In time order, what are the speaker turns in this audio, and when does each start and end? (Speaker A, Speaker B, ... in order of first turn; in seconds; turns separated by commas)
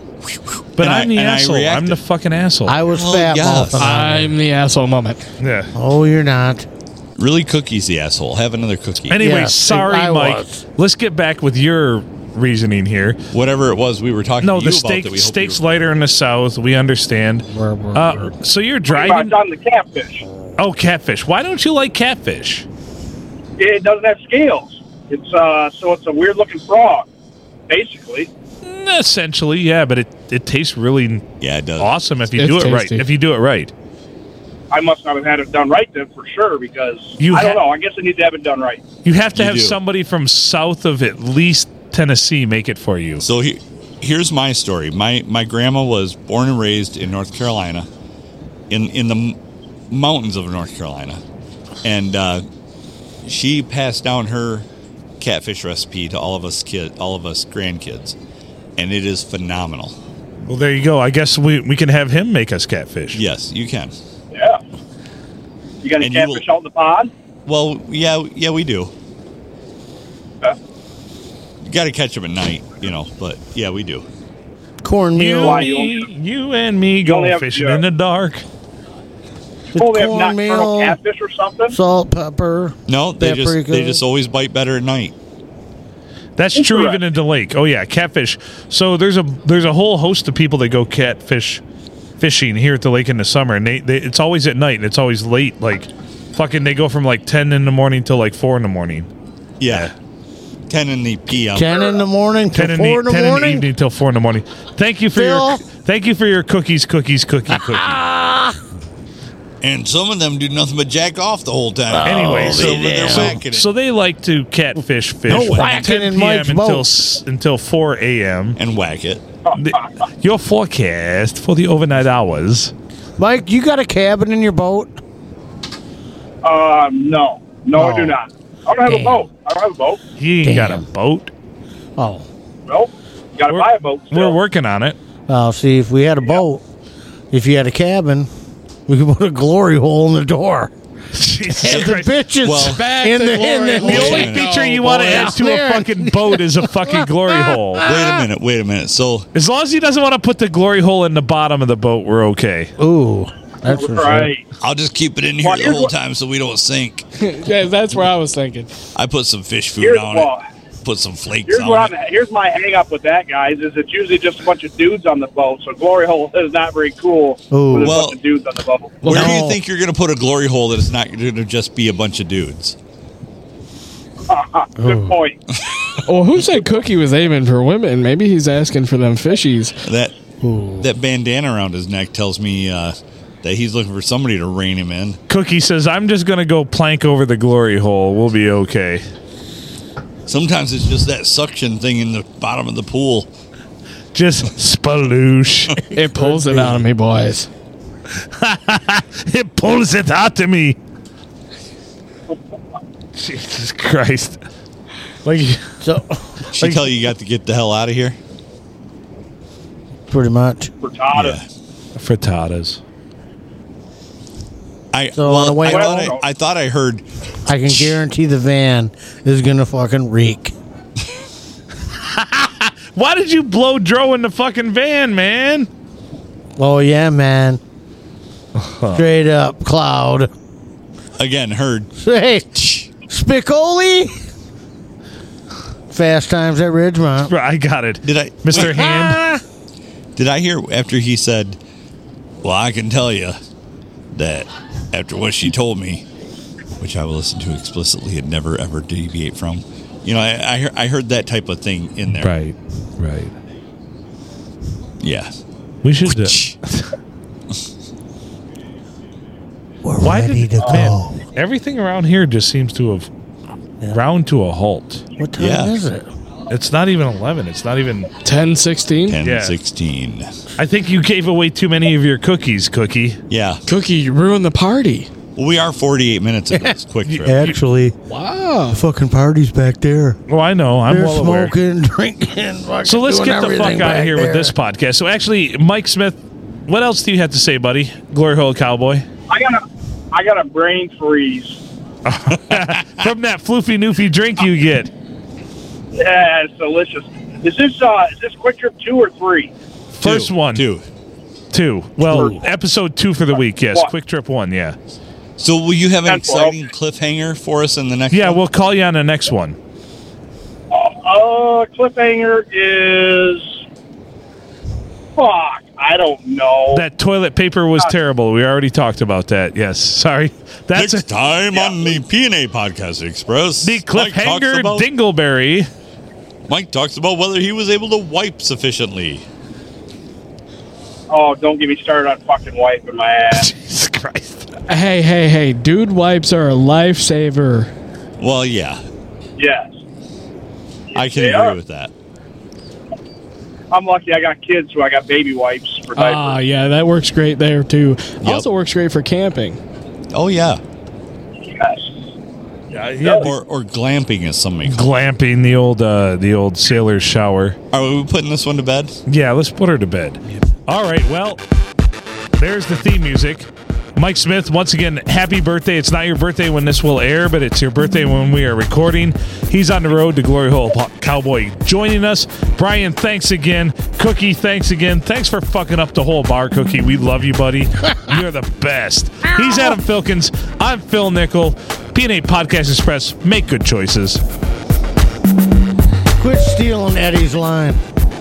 Speaker A: 0.3-2.0, Speaker B: 0.8-2.8, Speaker C: 2.6-4.3, Speaker A: 2.9-3.9, Speaker D: 3.8-5.2, Speaker B: 5.4-5.7, Speaker C: 5.7-6.6, Speaker A: 7.2-9.2, Speaker B: 9.1-13.2, Speaker C: 9.2-10.6, Speaker A: 13.3-15.8, Speaker B: 14.4-19.3, Speaker C: 17.5-18.3, Speaker E: 18.9-20.2, Speaker B: 20.6-22.6, Speaker E: 23.6-27.1, Speaker E: 27.7-28.3, Speaker B: 28.6-31.2, Speaker A: 31.4-31.9, Speaker B: 31.8-33.7, Speaker D: 32.4-33.1, Speaker E: 34.7-38.8, Speaker B: 37.2-37.6, Speaker B: 39.0-43.2, Speaker A: 39.3-39.8, Speaker A: 43.2-47.9, Speaker A: 48.7-49.4, Speaker A: 49.9-51.2, Speaker A: 51.8-52.4, Speaker A: 53.2-54.6, Speaker A: 55.2-58.1, Speaker A: 58.8-60.0, Speaker B: 60.5-63.2, Speaker A: 63.1-63.9, Speaker E: 64.3-64.6, Speaker E: 65.8-67.1, Speaker A: 66.0-66.5, Speaker A: 67.5-68.9, Speaker A: 71.6-74.0, Speaker C: 74.8-75.7, Speaker B: 75.1-78.4, Speaker E: 75.3-76.1, Speaker E: 77.0-77.8, Speaker C: 79.7-81.0, Speaker E: 79.7-81.8, Speaker C: 81.7-84.0, Speaker A: 82.9-85.1, Speaker B: 86.4-91.6, Speaker E: 86.5-87.0, Speaker B: 92.2-99.1, Speaker A: 99.6-99.9, Speaker B: 99.7-99.9, Speaker A: 100.7-102.0, Speaker C: 101.5-103.7, Speaker B: 102.5-108.0, Speaker C: 105.1-105.6, Speaker C: 107.5-108.6, Speaker A: 109.6-113.7, Speaker C: 111.9-113.4, Speaker B: 112.0-118.6, Speaker C: 115.3-116.9, Speaker A: 115.3-115.8, Speaker A: 118.5-119.2, Speaker E: 119.5-119.9, Speaker B: 119.5-122.7, Speaker C: 123.2-124.9, Speaker E: 126.4-130.0, Speaker C: 127.7-128.2, Speaker C: 128.8-129.2, Speaker B: 130.2-131.3, Speaker C: 130.4-130.8, Speaker C: 132.0-132.2, Speaker E: 132.7-134.4, Speaker B: 133.5-135.0, Speaker C: 135.3-136.6, Speaker C: 137.3-138.3, Speaker C: 138.9-140.7, Speaker B: 141.1-142.1, Speaker C: 141.5-148.2, Speaker A: 142.4-142.9, Speaker D: 142.8-144.3, Speaker A: 143.7-144.5, Speaker B: 143.8-147.8, Speaker A: 147.8-149.3, Speaker B: 149.3-152.7, Speaker C: 152.8-154.3, Speaker E: 153.7-154.4, Speaker A: 154.6-157.1, Speaker E: 155.4-155.9, Speaker D: 157.2-158.7, Speaker A: 158.9-160.3, Speaker E: 159.8-160.4, Speaker A: 160.8-161.9, Speaker E: 161.4-169.0, Speaker C: 167.5-168.0, Speaker A: 167.8-168.2, Speaker D: 169.0-169.4, Speaker A: 169.0-172.8, Speaker C: 169.1-169.6, Speaker E: 174.3-175.4, Speaker C: 174.8-175.2, Speaker A: 175.7-176.0, Speaker D: 176.0-179.8, Speaker A: 179.8-180.1, Speaker C: 180.4-180.9, Speaker A: 180.8-185.2, Speaker B: 185.3-189.0, Speaker A: 190.3-193.3, Speaker B: 194.1-195.8, Speaker D: 195.9-197.5, Speaker C: 195.9-196.8, Speaker B: 198.2-200.8, Speaker B: 203.2-204.4, Speaker B: 205.2-205.8, Speaker C: 205.8-206.1, Speaker A: 206.5-208.2, Speaker C: 210.1-210.7, Speaker E: 210.8-211.4, Speaker A: 211.1-211.4, Speaker B: 211.9-212.8, Speaker A: 214.9-217.0, Speaker C: 215.2-216.1, Speaker E: 215.6-216.2, Speaker C: 217.4-220.5, Speaker A: 217.7-218.0, Speaker B: 222.0-225.7, Speaker C: 226.6-227.6, Speaker B: 228.6-229.0, Speaker C: 228.9-230.3, Speaker A: 231.2-231.9, Speaker C: 232.0-234.1, Speaker A: 232.5-232.9, Speaker C: 235.9-237.3, Speaker B: 237.3-239.2, Speaker A: 238.0-238.8, Speaker C: 238.5-239.4, Speaker A: 240.2-241.6, Speaker A: 242.4-243.4, Speaker A: 244.1-246.0, Speaker A: 246.8-252.3, Speaker B: 252.2-253.3, Speaker A: 255.0-255.4, Speaker B: 255.8-256.9, Speaker A: 256.1-256.5, Speaker C: 259.8-261.2, Speaker B: 260.0-263.1, Speaker B: 263.9-265.0, Speaker C: 265.2-266.1, Speaker A: 265.4-265.8, Speaker B: 266.5-268.1, Speaker D: 268.2-269.2, Speaker A: 269.1-270.3, Speaker B: 269.2-269.6, Speaker B: 270.6-273.2, Speaker A: 273.3-273.6, Speaker D: 273.7-275.1, Speaker A: 275.4-277.4, Speaker C: 276.5-278.0, Speaker B: 277.1-277.6, Speaker D: 278.1-278.8, Speaker C: 278.7-280.2, Speaker B: 280.3-281.5, Speaker C: 280.9-284.5, Speaker B: 282.8-289.1, Speaker E: 289.3-291.6, Speaker B: 292.1-294.9, Speaker A: 292.3-293.0, Speaker E: 295.9-299.5, Speaker B: 299.9-300.6, Speaker A: 300.0-300.8, Speaker B: 301.5-304.8, Speaker E: 302.0-302.4, Speaker A: 305.4-308.4, Speaker E: 306.0-306.6, Speaker B: 308.1-309.6, Speaker E: 310.7-313.6, Speaker E: 315.1-316.8, Speaker B: 316.7-321.1, Speaker A: 320.7-324.9, Speaker E: 321.5-322.0, Speaker B: 323.6-325.7, Speaker A: 326.5-329.2, Speaker E: 331.1-333.5, Speaker B: 333.3-334.5, Speaker D: 334.7-337.7, Speaker A: 338.2-338.8, Speaker E: 339.4-339.8, Speaker E: 340.9-341.6, Speaker A: 340.9-341.9, Speaker E: 343.7-346.4, Speaker D: 345.9-349.6, Speaker A: 348.2-348.5, Speaker A: 350.1-350.6, Speaker E: 351.4-352.0, Speaker B: 352.7-353.3, Speaker E: 353.0-353.3, Speaker A: 353.0-354.9, Speaker B: 354.6-357.6, Speaker A: 357.7-359.0, Speaker B: 359.1-361.4, Speaker B: 362.4-384.2, Speaker C: 386.2-387.8